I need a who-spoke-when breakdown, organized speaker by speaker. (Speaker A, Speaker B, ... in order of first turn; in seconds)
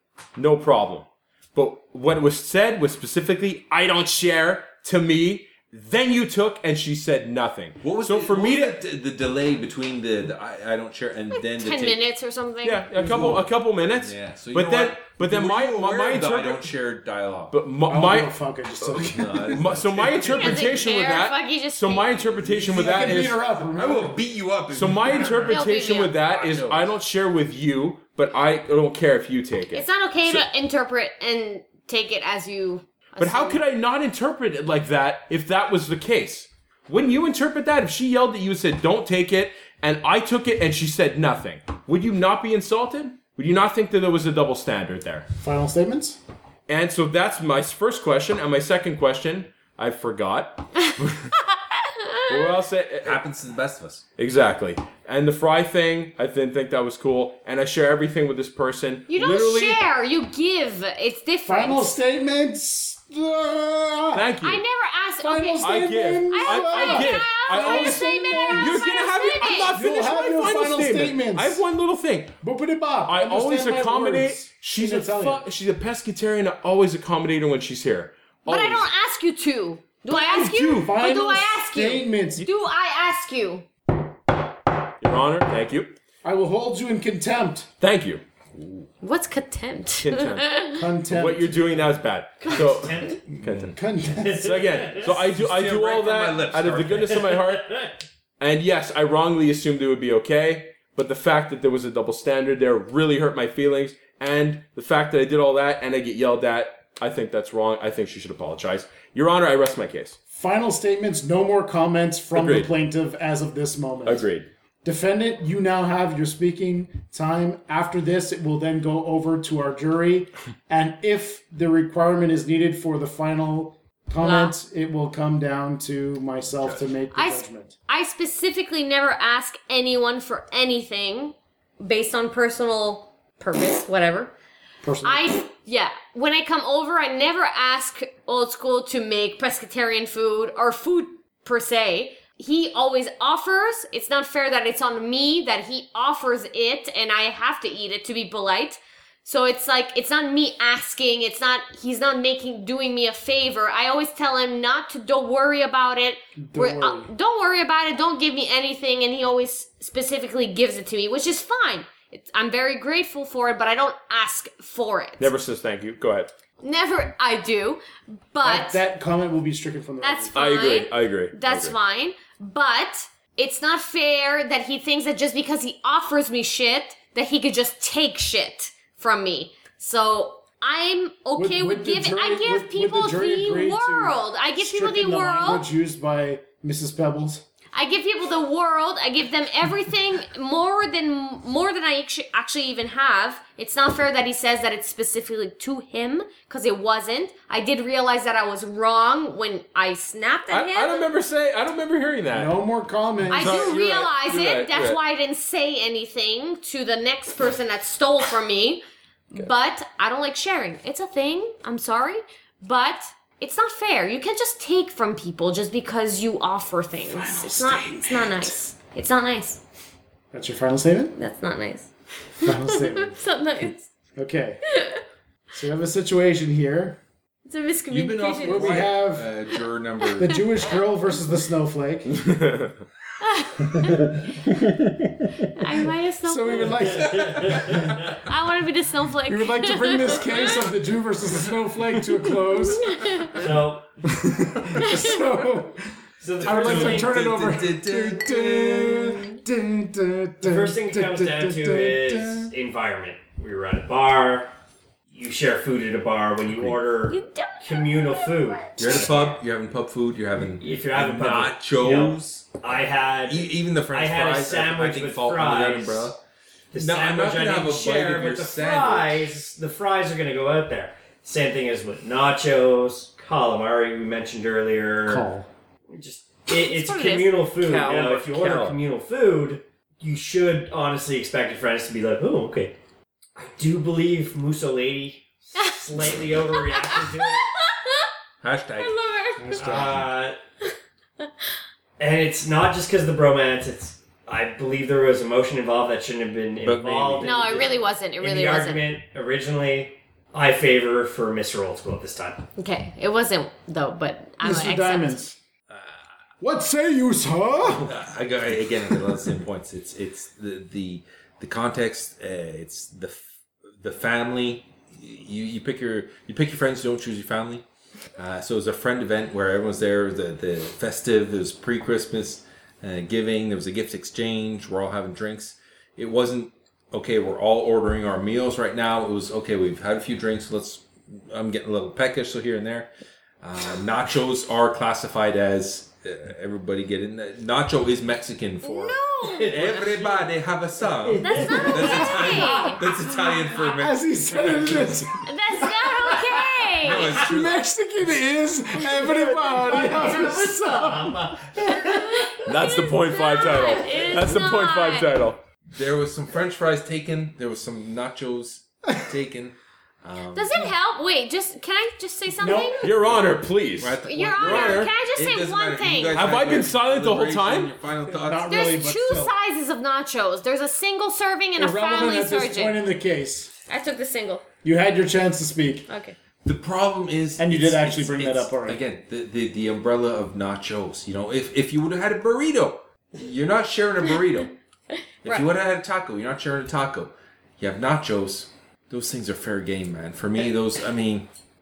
Speaker A: 0.3-8.8, 12.6-16.7, 17.5-23.4, 24.7-30.4, 33.2-45.3, 46.7-51.4, 52.3-53.2, 54.2-59.8, 64.1-64.6, 65.6-72.4, 73.0-78.9, 80.1-81.0, 85.0-86.0, 87.8-88.2, 90.0-90.5, 91.1-93.8, 94.3-97.8, 98.4-110.2, 112.3-112.7, 114.0-114.5, 165.2-166.3, 170.3-171.8, 200.5-202.6, 203.3-205.0, 232.2-232.7, 277.6-278.8, 352.4-355.4, 362.8-364.9, 366.1-367.7
Speaker B: 7.8-12.0, 13.0-17.6, 18.9-20.6, 22.4-25.6, 26.2-26.9, 53.0-54.0, 93.4-93.7, 95.3-97.2, 227.9-230.4, 237.0-238.0, 246.4-249.3, 258.8-266.2, 266.8-269.3, 288.4-288.9, 289.7-290.1, 296.6-297.4, 305.7-306.0, 307.8-313.2, 313.8-317.6, 318.1-332.9, 333.4-345.0, 346.8-347.7, 355.7-360.7, 363.0-368.6, 376.4-384.5, 385.2-391.3
Speaker C: 11.3-12.9, 20.2-22.3, 25.5-26.1, 29.7-33.6, 51.7-52.4, 59.1-62.0, 64.4-65.7, 66.3-69.7, 78.5-83.7, 89.0-90.8, 124.2-124.5, 127.1-134.3, 135.0-165.3, 166.6-167.8, 168.3-168.8, 170.0-185.6, 187.7-201.1, 203.3-219.6, 221.1-223.9, 224.7-225.0, 227.4-228.9, 229.6-230.8, 233.2-234.2, 235.5-237.0, 238.2-240.6, 242.5-243.4, 244.8-245.2, 257.1-259.1, 276.5-277.4, 286.5-288.1, 288.8-289.8, 297.2-298.9, 302.6-305.2, 338.6-339.7, 341.2-342.8, 345.2-347.2, 351.7-355.1, 360.3-362.9, 364.0-366.3, 368.4-372.8, 373.7-374.4, 375.9-376.1
Speaker D: 13.0-13.4, 17.9-19.6, 22.5-24.2, 45.4-46.2, 61.5-64.3, 65.2-68.9, 69.7-71.6, 72.4-75.4, 80.6-82.4, 86.2-87.7, 90.7-91.9, 93.7-94.5, 110.3-114.3, 114.8-127.8, 134.8-135.3, 156.4-157.1, 168.4-170.4, 181.4-187.4, 202.3-203.7, 217.1-218.5, 220.3-221.1, 222.4-223.2, 224.2-224.6, 225.5-227.0, 228.4-229.4, 230.2-232.3, 236.2-238.0, 239.2-252.5, 275.0-275.5, 289.4-290.1, 304.4-305.4, 306.4-308.0, 343.7-351.8, 362.4-362.9, 368.2-369.3, 371.6-373.5, 374.6-375.9, 377.4-378.8
Speaker E: 92.4-93.3, 94.1-95.2, 97.3-97.9, 236.8-238.1, 243.3-244.0, 246.2-247.2, 250.4-254.5, 255.1-259.4, 260.6-266.1, 266.7-275.3, 275.9-282.8, 283.4-287.5, 289.6-290.4, 292.0-302.5, 339.2-340.2, 340.9-343.2, 348.8-352.3